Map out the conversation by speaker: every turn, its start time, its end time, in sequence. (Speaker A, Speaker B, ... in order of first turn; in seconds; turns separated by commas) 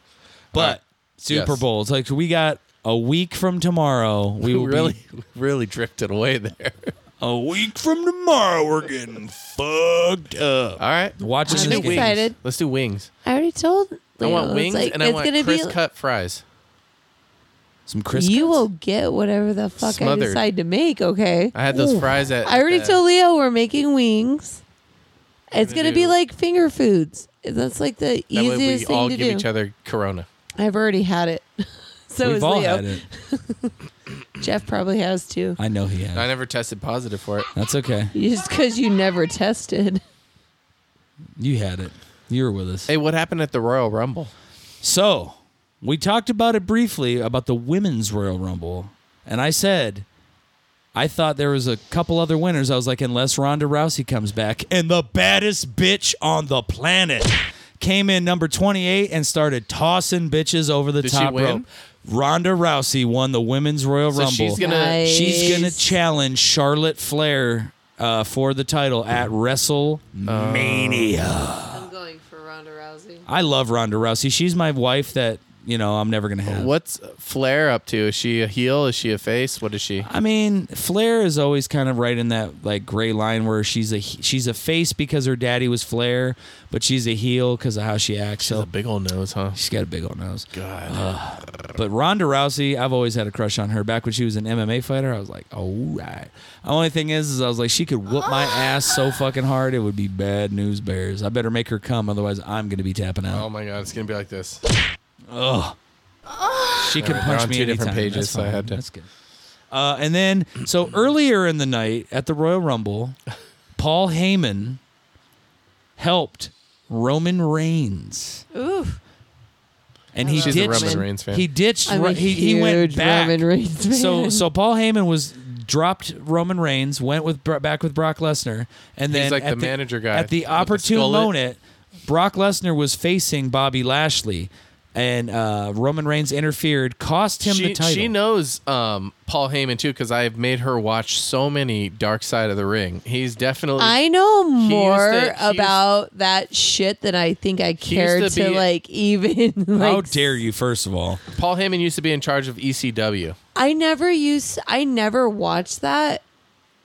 Speaker A: 0.5-5.0, Speaker B: 0.5-1.6, Speaker B: 4.4-6.9, Speaker A: 7.2-12.2, Speaker B: 10.8-13.1, Speaker C: 11.5-12.4, Speaker C: 13.2-15.8, Speaker B: 14.2-16.4, Speaker A: 17.9-18.6, Speaker C: 18.1-24.6, Speaker B: 19.8-20.4, Speaker B: 21.5-23.0, Speaker C: 25.5-29.5, Speaker B: 25.5-26.1, Speaker B: 28.3-30.3, Speaker C: 30.6-33.8, Speaker A: 32.2-33.0, Speaker C: 34.4-35.6, Speaker A: 35.6-36.3, Speaker B: 36.1-37.5, Speaker A: 37.6-38.1, Speaker C: 38.1-40.0, Speaker A: 41.4-42.9, Speaker B: 42.9-44.3, Speaker A: 44.8-50.0, Speaker A: 51.0-71.9, Speaker B: 61.0-61.7, Speaker B: 64.1-65.4, Speaker C: 64.6-65.9, Speaker B: 70.3-71.2, Speaker C: 71.7-73.3, Speaker A: 73.3-76.7, Speaker B: 76.5-80.1, Speaker A: 80.0-88.7, Speaker B: 88.4-89.6, Speaker A: 89.5-103.5, Speaker B: 90.5-91.8, Speaker B: 103.3-104.6, Speaker A: 105.3-105.8, Speaker A: 106.8-109.1, Speaker B: 107.0-108.8, Speaker A: 109.7-113.2, Speaker A: 113.8-114.8, Speaker A: 116.0-118.4, Speaker C: 118.5-119.0, Speaker A: 120.1-138.1, Speaker C: 120.2-121.0, Speaker B: 120.3-121.5, Speaker C: 121.9-124.5, Speaker B: 129.1-131.3, Speaker B: 137.4-144.0, Speaker C: 143.8-150.2, Speaker B: 144.6-145.8, Speaker B: 147.8-148.7, Speaker A: 149.8-151.2, Speaker B: 151.3-153.4, Speaker C: 153.6-156.2